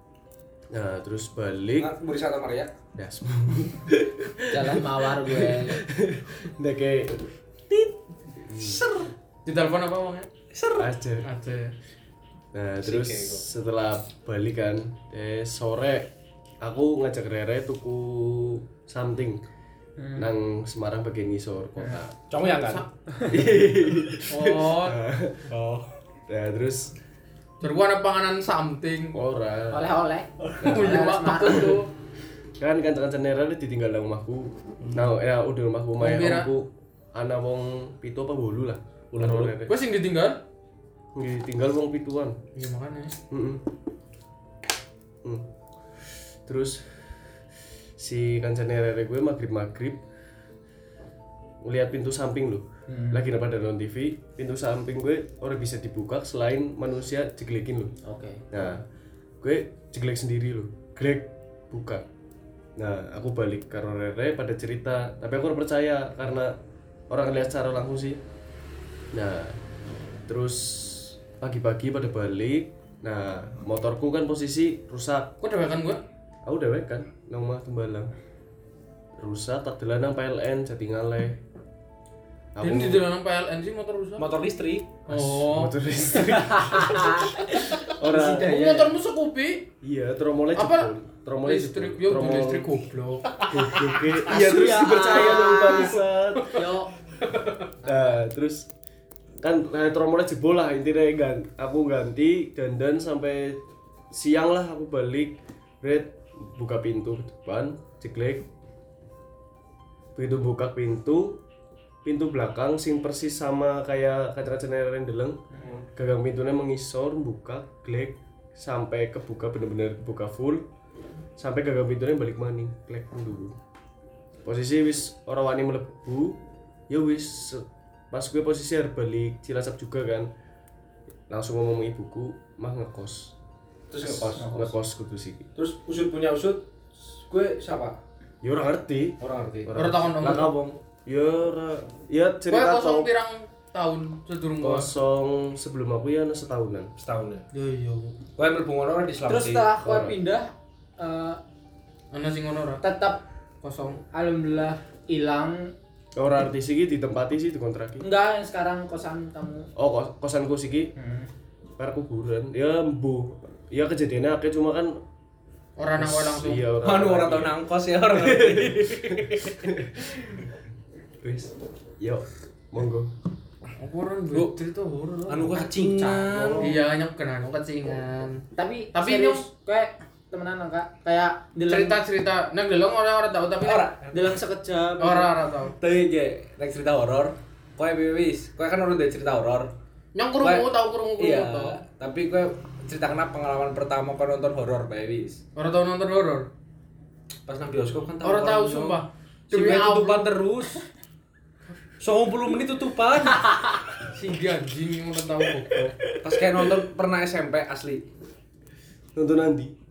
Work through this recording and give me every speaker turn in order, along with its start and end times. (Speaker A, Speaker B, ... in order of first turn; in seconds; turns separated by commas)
Speaker A: 0.7-1.9, Speaker B: 1.8-2.7, Speaker A: 3.0-7.3, Speaker C: 4.5-5.8, Speaker A: 8.4-8.8, Speaker B: 8.5-9.1, Speaker D: 9.4-10.3, Speaker B: 10.5-10.9, Speaker A: 10.8-11.3, Speaker D: 11.2-11.7, Speaker A: 12.5-19.4, Speaker B: 12.8-13.4, Speaker C: 20.0-20.3, Speaker A: 20.1-22.1, Speaker B: 22.3-22.9, Speaker C: 23.1-23.5, Speaker A: 23.3-25.5, Speaker D: 24.3-25.0, Speaker B: 25.5-25.9, Speaker A: 26.3-26.9, Speaker D: 27.6-29.2, Speaker A: 29.1-29.9, Speaker C: 29.7-31.8, Speaker A: 30.6-30.9, Speaker D: 30.6-31.9, Speaker A: 32.6-39.7, Speaker B: 34.8-35.1, Speaker D: 36.0-36.5, Speaker B: 39.1-39.6, Speaker D: 39.7-40.4, Speaker A: 41.1-42.4, Speaker D: 42.5-43.1, Speaker A: 43.3-43.6, Speaker A: 46.0-47.3, Speaker A: 48.0-50.0, Speaker A: 51.6-57.9, Speaker C: 52.9-53.2, Speaker C: 58.0-58.7, Speaker A: 58.5-58.8, Speaker A: 59.4-62.0, Speaker A: 62.8-66.5, Speaker A: 67.1-68.2, Speaker A: 69.1-69.6, Speaker A: 70.2-75.3, Speaker D: 75.4-76.0, Speaker A: 76.4-78.1, Speaker A: 79.2-81.4, Speaker A: 82.5-83.1, Speaker D: 82.6-84.3, Speaker B: 84.2-84.9, Speaker D: 85.0-85.8, Speaker A: 85.1-88.5, Speaker C: 86.2-89.0, Speaker D: 88.2-89.7, Speaker A: 89.8-92.7, Speaker D: 90.5-94.3, Speaker A: 93.5-96.6, Speaker C: 94.2-96.9, Speaker D: 95.0-97.7, Speaker C: 97.8-98.2, Speaker A: 97.8-98.7, Speaker A: 99.4-108.5, Speaker A: 110.1-111.4, Speaker A: 112.0-115.4, Speaker A: 115.9-120.7, Speaker A: 121.4-123.6, Speaker A: 124.4-130.3, Speaker A: 131.3-133.3, Speaker B: 133.9-134.7, Speaker A: 134.0-135.5, Speaker B: 135.6-138.0, Speaker A: 138.4-143.1, Speaker B: 139.2-139.8, Speaker D: 139.7-140.6, Speaker D: 142.5-144.9, Speaker A: 144.6-146.9, Speaker B: 147.0-147.4, Speaker D: 147.5-148.1, Speaker B: 148.3-149.7, Speaker C: 149.2-151.4, Speaker A: 149.8-150.2, Speaker D: 152.1-152.8, Speaker C: 152.8-153.2, Speaker D: 153.6-154.0, Speaker C: 154.1-155.7, Speaker A: 156.2-158.0, Speaker C: 158.0-159.7, Speaker A: 159.8-160.9, Speaker C: 160.9-161.3, Speaker A: 161.8-165.0, Speaker D: 165.8-166.7, Speaker A: 165.9-170.4, Speaker B: 166.8-169.7, Speaker A: 171.2-173.1, Speaker D: 173.8-175.9, Speaker B: 175.3-176.7, Speaker C: 175.8-176.8, Speaker A: 176.3-176.7, Speaker D: 176.6-179.5, Speaker C: 178.5-182.0, Speaker D: 181.7-183.9, Speaker B: 183.6-184.3, Speaker C: 184.1-185.3, Speaker D: 185.0-185.7, Speaker B: 185.8-189.7, Speaker D: 190.1-191.8, Speaker B: 190.4-195.4, Speaker D: 195.6-196.5, Speaker B: 197.4-200.8, Speaker D: 198.2-200.3, Speaker B: 202.0-203.5, Speaker D: 204.0-205.9, Speaker B: 206.2-208.0, Speaker A: 209.1-209.7